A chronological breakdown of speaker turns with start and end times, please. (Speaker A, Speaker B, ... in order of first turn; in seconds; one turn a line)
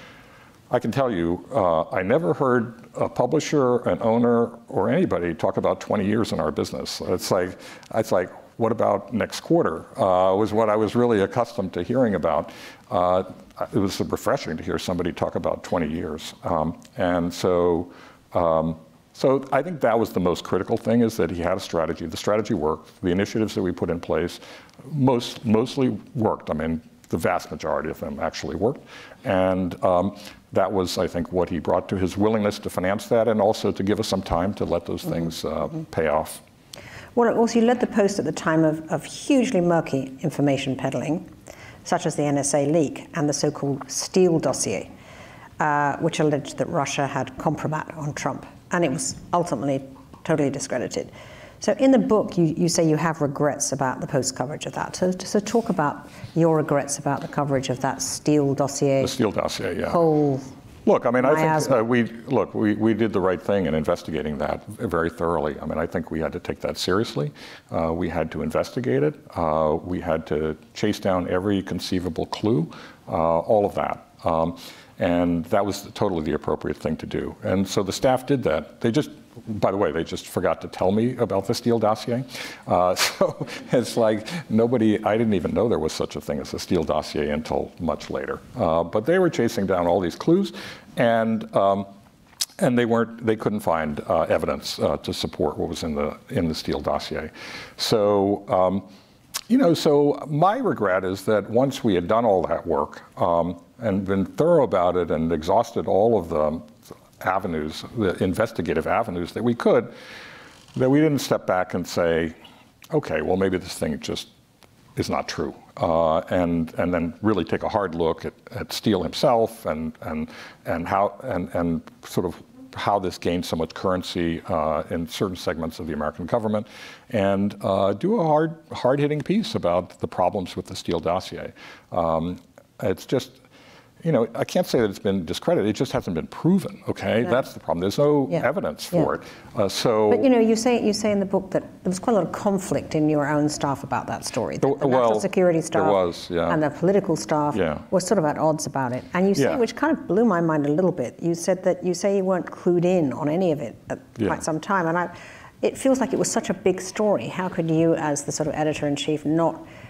Speaker A: 0.7-36.4
Speaker B: 37.2-41.3
Speaker B: 41.9-44.9
Speaker B: 45.6-59.1
Speaker A: 59.0-60.0
Speaker B: 59.9-60.5
Speaker A: 60.9-91.9
Speaker B: 61.2-61.8
Speaker A: 92.6-98.9
Speaker A: 99.5-109.9
Speaker A: 110.8-112.4
Speaker A: 112.9-114.3
Speaker A: 115.0-133.4
Speaker A: 134.0-140.3
Speaker B: 138.3-139.1
Speaker B: 140.1-159.7
Speaker A: 144.6-146.6
Speaker A: 147.5-147.9
Speaker A: 149.4-149.6
Speaker A: 154.2-154.4